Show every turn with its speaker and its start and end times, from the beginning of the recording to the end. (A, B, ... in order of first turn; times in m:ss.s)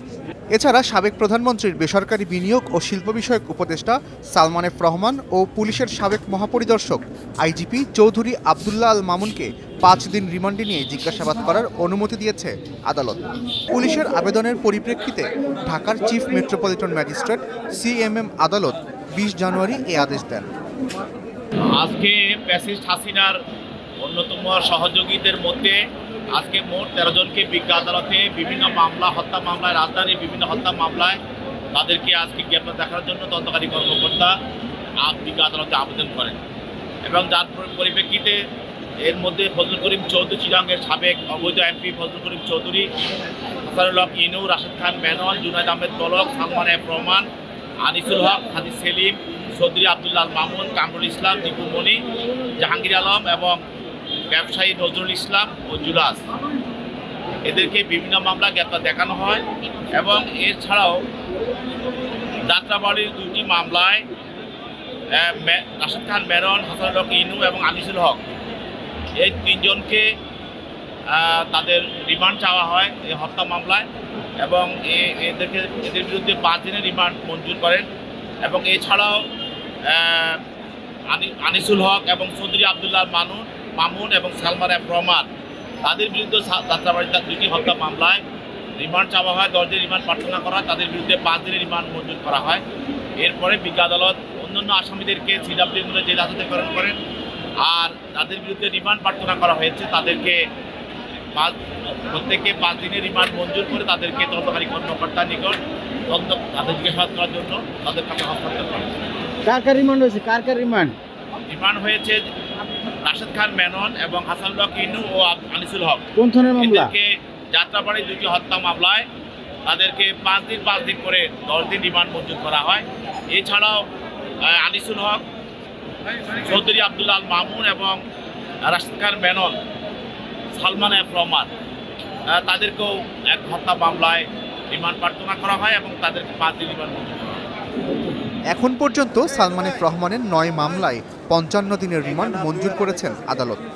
0:00.5-0:20.5 A
0:21.8-0:23.4 B
0:24.0-0:25.8 B
0:26.3-0:31.2 B
0:31.7-0:34.3 B
0:35.0-0:36.4 B
0:37.0-0:38.4 B
0:39.0-0:42.9 B
0:43.7-0:47.3 B
0:47.8-0:52.1 B
0:52.6-0:53.6 B
0:54.3-0:56.2 B
0:57.4-1:01.0 B
1:02.5-1:04.1 B
1:05.1-1:08.2 B
1:09.2-1:10.1 B
1:11.1-1:13.9 B
1:14.4-1:17.9 B
1:18.4-1:19.3 B
1:19.9-1:20.4 B
1:21.1-1:25.3 B
1:25.8-1:28.2 B
1:28.8-1:32.6 B
1:33.2-1:37.0 B
1:37.6-1:40.4 B
1:41.3-1:48.9 B
1:49.5-1:51.0 C
1:51.5-1:52.2 B
1:53.0-1:59.1 B
1:56.2-1:56.9 C
1:59.7-2:03.9 B
2:04.4-2:05.2 B
2:06.4-2:08.0 B
2:08.7-2:09.6 B
2:10.5-2:11.5 B
2:12.3-2:17.4 B
2:18.5-2:23.6 A